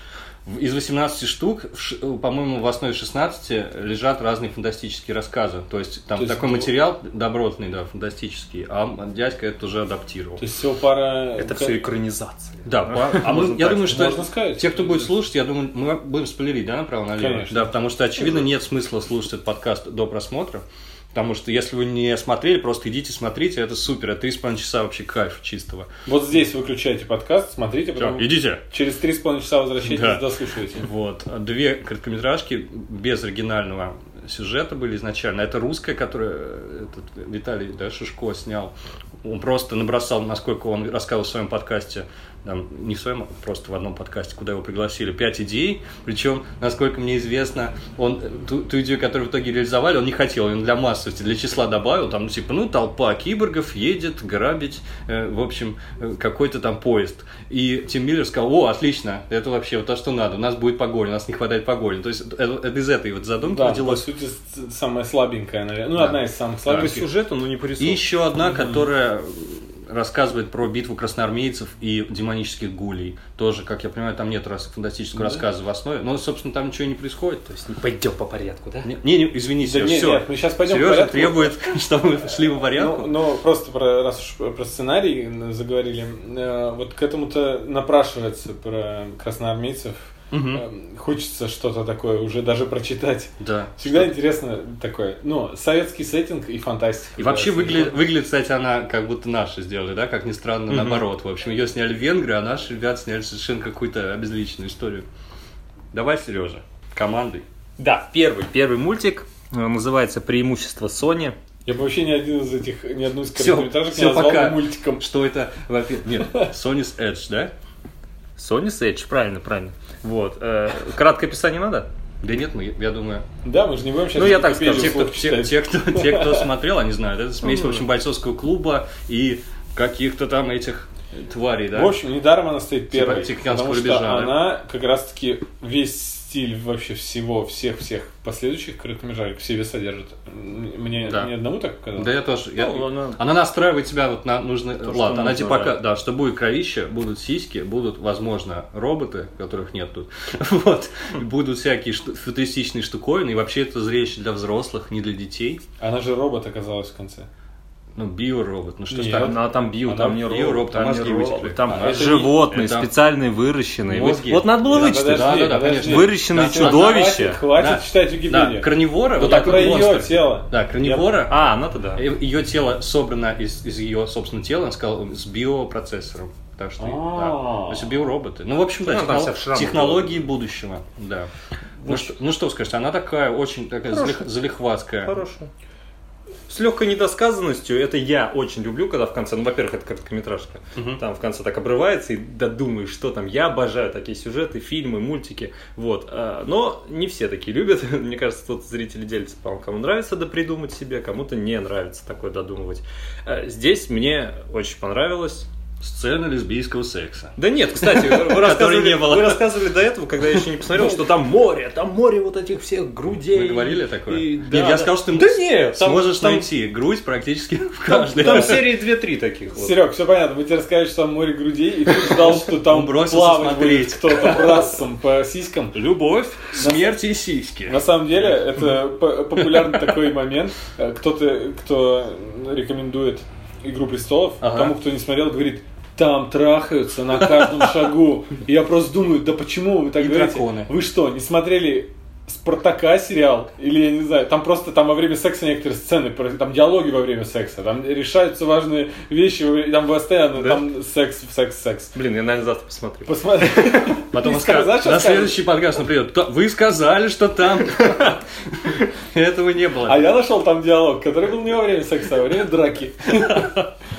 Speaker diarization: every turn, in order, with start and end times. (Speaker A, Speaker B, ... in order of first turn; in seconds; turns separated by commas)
Speaker A: 0.5-10.4, Speaker B: 6.2-6.7, Speaker B: 10.4-11.8, Speaker C: 11.4-14.0, Speaker A: 12.7-25.9, Speaker B: 13.8-15.1, Speaker B: 17.1-17.7, Speaker B: 26.1-30.9, Speaker A: 27.9-28.6, Speaker A: 29.8-30.2, Speaker A: 30.7-64.0, Speaker B: 63.4-67.0, Speaker C: 66.7-68.0, Speaker A: 67.8-77.5, Speaker C: 77.5-78.9, Speaker A: 78.8-83.1, Speaker B: 79.6-81.5, Speaker B: 82.7-97.9, Speaker A: 90.3-90.6, Speaker A: 93.4-94.1, Speaker A: 97.2-105.0, Speaker C: 100.7-101.0, Speaker A: 105.9-107.4, Speaker C: 107.8-111.3, Speaker B: 111.7-115.0, Speaker A: 113.3-117.5, Speaker C: 118.4-121.9, Speaker A: 122.2-123.2, Speaker B: 123.4-126.5, Speaker C: 124.1-125.1, Speaker A: 124.6-131.9, Speaker B: 127.5-127.7, Speaker B: 131.7-142.1, Speaker A: 132.9-134.3, Speaker A: 141.0-141.3, Speaker A: 142.0-155.6, Speaker C: 142.6-143.2, Speaker C: 144.8-145.8, Speaker B: 155.8-157.3, Speaker A: 157.9-159.4, Speaker B: 158.9-160.2, Speaker C: 159.1-167.4, Speaker A: 160.0-162.9, Speaker A: 163.9-181.3, Speaker B: 164.7-171.1, Speaker C: 169.2-169.8, Speaker C: 171.3-172.0, Speaker B: 176.8-177.9, Speaker C: 178.8-180.2, Speaker C: 181.8-182.1, Speaker A: 181.8-185.2, Speaker C: 183.9-184.2, Speaker C: 185.0-185.5, Speaker C: 186.5-205.5, Speaker A: 205.8-209.4, Speaker C: 207.4-216.4, Speaker A: 213.3-218.7, Speaker C: 217.9-219.8, Speaker B: 219.6-225.8, Speaker A: 222.0-224.7, Speaker A: 225.7-227.8, Speaker B: 226.6-226.9, Speaker B: 227.7-251.9, Speaker A: 234.4-234.7, Speaker A: 240.0-240.7, Speaker C: 250.4-250.6, Speaker C: 251.9-253.1, Speaker B: 253.1-255.4, Speaker A: 254.1-260.1, Speaker B: 259.9-263.4, Speaker A: 263.1-263.7